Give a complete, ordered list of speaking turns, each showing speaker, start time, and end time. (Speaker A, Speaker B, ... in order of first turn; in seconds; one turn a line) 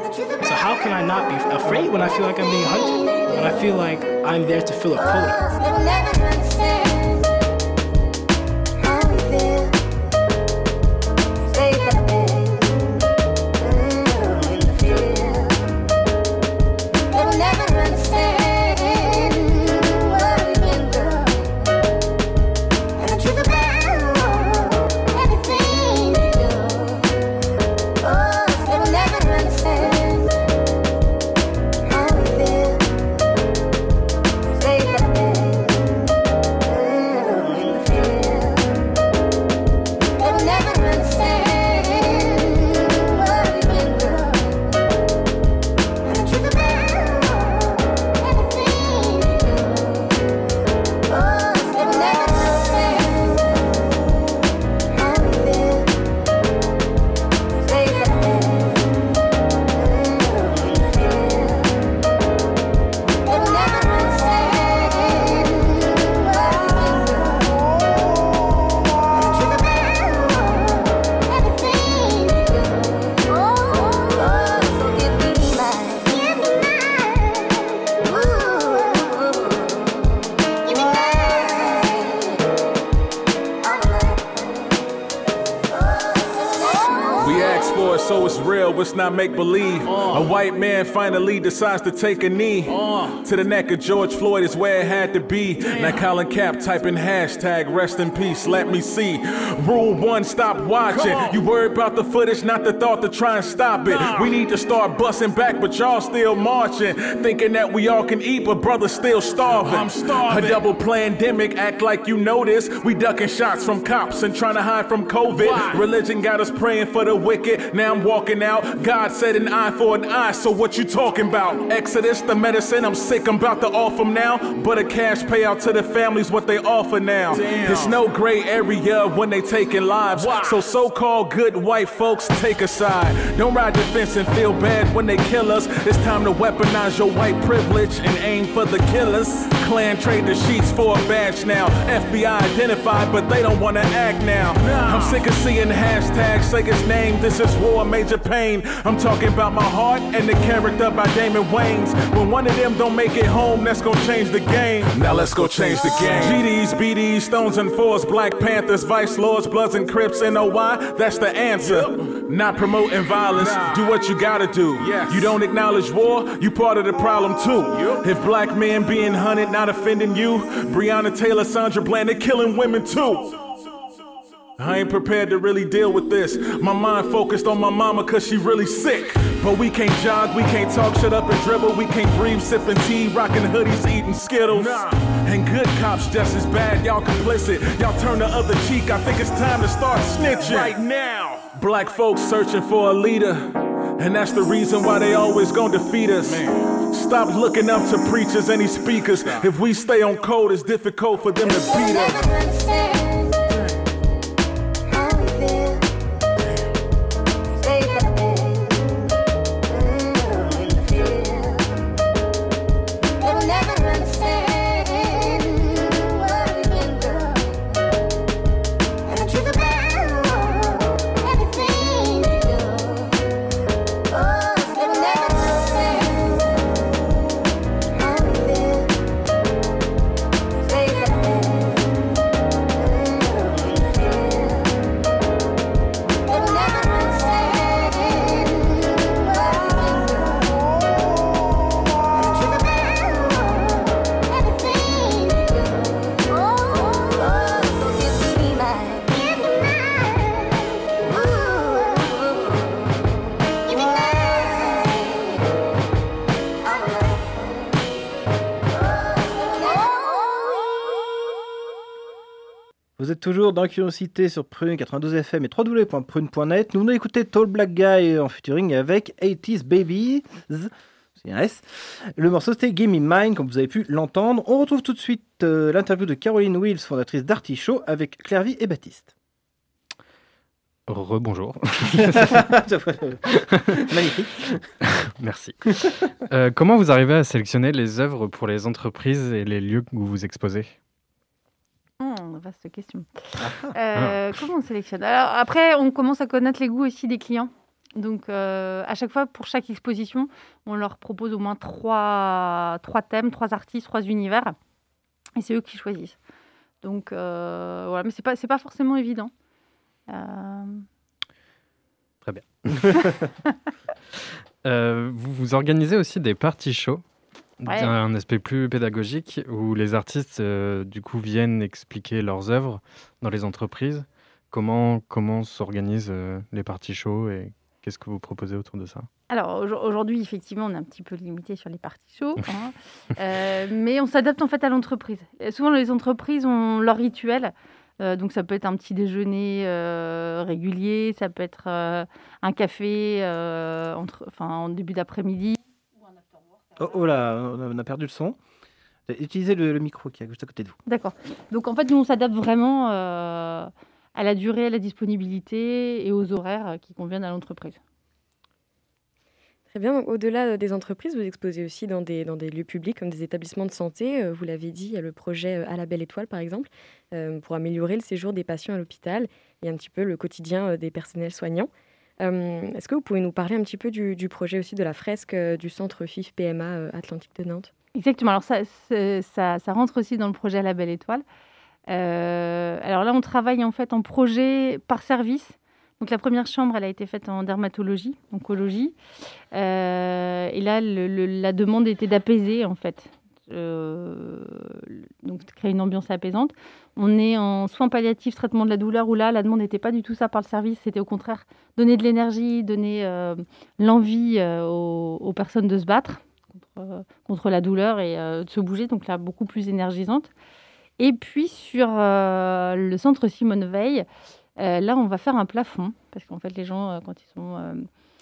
Speaker A: 0.4-5.5
Speaker B: 87.2-173.3
Speaker B: 174.6-202.4
Speaker C: 263.0-279.1
Speaker D: 280.9-282.4
Speaker C: 282.2-283.2
Speaker C: 283.8-284.4
Speaker D: 285.2-285.6
Speaker D: 286.3-290.7
Speaker E: 292.0-293.2
Speaker C: 293.4-293.7
Speaker E: 293.7-304.5
Speaker E: 305.4-306.2
Speaker E: 306.8-309.3
Speaker E: 310.1-310.9
Speaker D: 312.2-313.1
Speaker D: 314.6-317.0
Speaker D: 317.6-329.1
Speaker E: 317.6-317.9
Speaker E: 329.3-345.6
Speaker C: 346.8-348.4
Speaker C: 349.1-350.8
Speaker E: 350.9-357.8
Speaker F: 359.7-377.7
Speaker E: 377.9-381.2
Speaker E: 381.9-388.9
Speaker E: 389.5-410.3
Speaker E: 411.0-414.1
Speaker E: 414.6-417.9